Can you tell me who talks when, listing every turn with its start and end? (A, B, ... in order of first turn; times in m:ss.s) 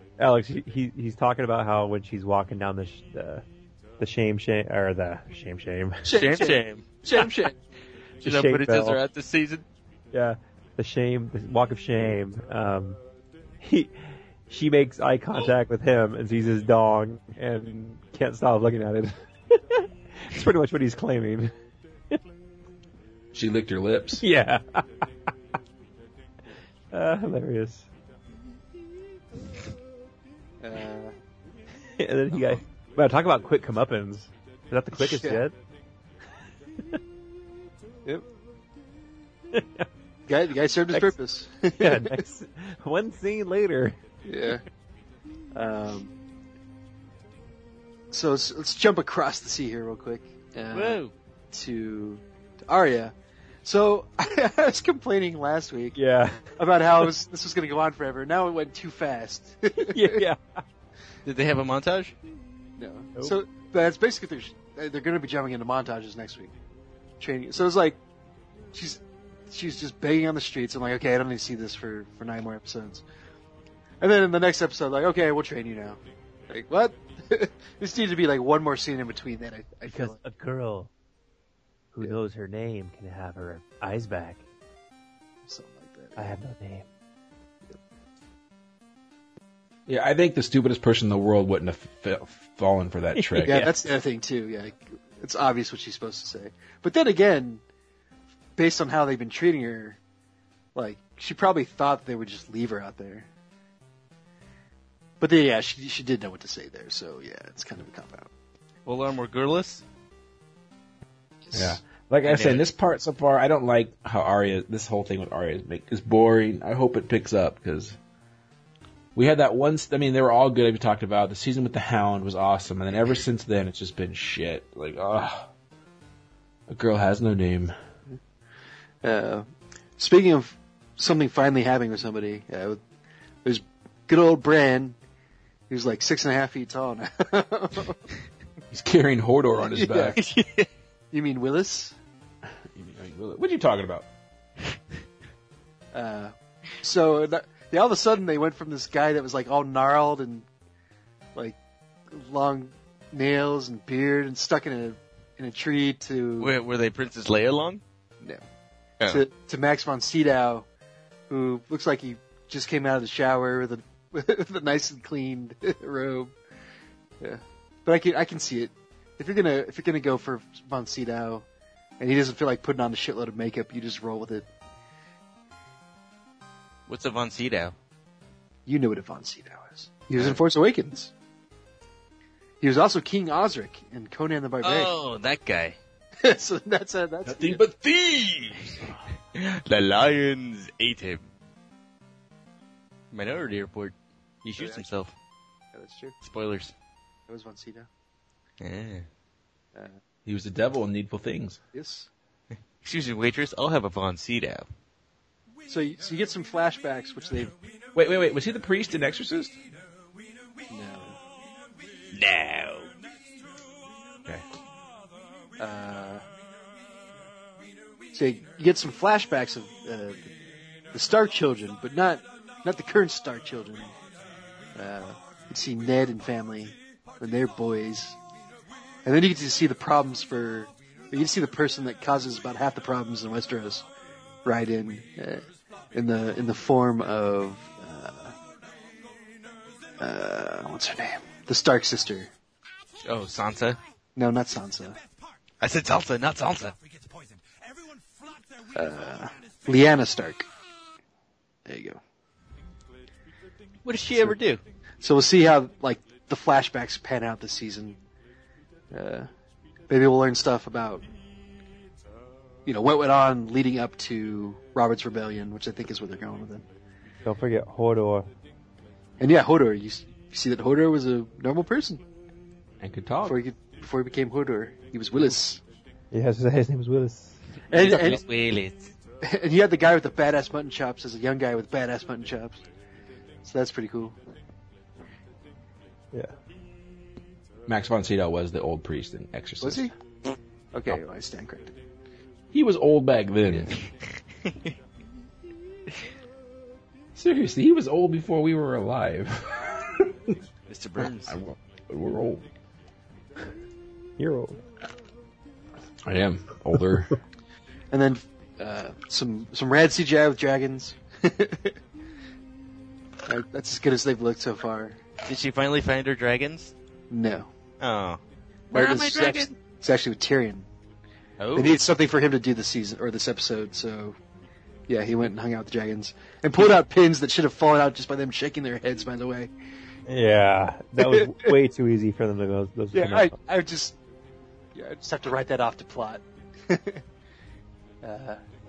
0:00.2-0:03.4 A
0:04.0-0:06.2 A
0:06.0-0:07.5 B
0:06.1-0:07.3 C
0:08.2-0:09.6 C
0:08.2-0:09.0 A
0:10.1-0:13.0 A
0:13.6-0:13.9 A
0:14.5-0:21.5 A
0:23.3-0:24.2 D
0:24.2-0:25.0 A
0:26.9-0:27.9 A
0:30.6-0:31.1 B
0:32.0-0:35.5 A
0:34.9-0:35.4 B
0:39.5-0:39.9 A
0:40.3-0:42.2 B
0:41.8-0:44.0 A
0:44.2-0:44.6 B
0:45.5-0:46.1 B
0:48.1-0:51.0 B
0:50.7-0:51.1 C
0:51.5-0:53.1 B
0:53.6-0:56.0 B
0:55.9-0:56.6 A
0:56.6-1:00.2 B
0:59.9-1:00.6 A
1:01.2-1:02.1 C
1:02.8-1:06.5 B
1:07.2-1:08.0 B
1:08.7-1:13.0 B
1:14.0-1:20.2 B
1:19.9-1:20.9 A
1:21.9-1:24.4 A
1:25.4-1:26.3 B
1:26.2-1:26.9 A
1:29.9-1:33.6 D
1:33.2-1:33.7 A
1:33.4-1:37.6 B
1:38.6-1:40.0 B
1:40.7-1:43.3 B
1:45.2-1:48.3 B
1:48.8-1:49.8 C
1:51.5-1:51.7 B
1:51.5-1:58.0 D
1:52.2-1:52.6 C
1:59.1-2:05.5 D
2:06.7-2:07.7 D
2:09.0-2:12.8 B
2:13.4-2:15.0 B
2:15.7-2:18.0 B
2:18.7-2:20.2 D
2:19.7-2:20.2 B
2:20.2-2:20.7 C
2:21.1-2:22.0 B
2:22.5-2:24.1 D
2:25.9-2:30.5 B
2:32.1-2:36.5 B
2:36.4-2:37.8 C
2:39.1-2:40.7 B
2:41.3-2:46.4 B
2:47.2-2:51.4 B
2:52.0-2:54.5 B
2:56.9-2:57.7 C
2:58.6-3:01.1 B
3:00.2-3:00.4 C
3:02.6-3:04.9 B
3:04.6-3:05.8 C
3:06.2-3:07.6 B
3:07.2-3:07.8 D
3:07.6-3:08.8 C
3:09.3-3:11.3 C
3:13.1-3:15.1 C
3:14.6-3:14.9 B
3:15.7-3:16.2 B
3:16.2-3:16.7 C
3:17.3-3:17.9 B
3:18.6-3:19.0 C
3:19.7-3:20.0 B
3:20.2-3:21.6 D
3:21.7-3:22.1 B
3:22.8-3:24.6 C
3:25.7-3:27.5 B
3:27.9-3:29.6 D
3:30.7-3:31.2 B
3:32.2-3:32.9 C
3:35.6-3:36.2 B
3:38.1-3:40.3 B
3:40.9-3:43.9 B
3:44.7-3:48.2 B
3:49.0-3:53.8 B
3:54.4-3:58.3 B
4:00.0-4:02.3 B
4:03.0-4:03.8 C
4:04.2-4:05.0 B
4:05.6-4:06.8 C
4:08.7-4:10.5 B
4:11.6-4:12.0 B
4:13.8-4:14.6 C
4:15.0-4:18.0 B
4:18.9-4:19.3 B
4:19.9-4:21.0 B
4:22.6-4:26.6 B
4:27.2-4:28.3 A
4:29.2-4:32.0 B
4:32.8-4:33.4 D
4:33.2-4:35.6 B
4:36.1-4:37.4 A
4:37.7-4:38.2 B
4:37.7-4:38.9 C
4:39.2-4:42.6 B
4:43.4-4:44.2 B
4:47.7-4:49.9 D
4:49.6-4:49.9 B
4:50.7-4:51.8 B
4:52.5-4:53.7 D
4:57.1-5:00.3 D
5:00.7-5:01.4 C
5:01.0-5:02.4 D
5:04.2-5:04.6 A
5:06.0-5:07.1 D
5:07.9-5:11.8 B
5:13.2-5:15.0 B
5:15.2-5:16.7 C
5:17.1-5:17.5 B
5:17.8-5:18.2 C
5:18.7-5:19.5 C
5:18.7-5:20.7 B
5:21.4-5:21.8 C
5:21.5-5:24.2 B
5:24.9-5:29.5 B
5:30.1-5:33.3 A
5:31.0-5:31.5 B
5:32.9-5:34.0 B
5:34.7-5:37.0 B
5:38.0-5:38.4 B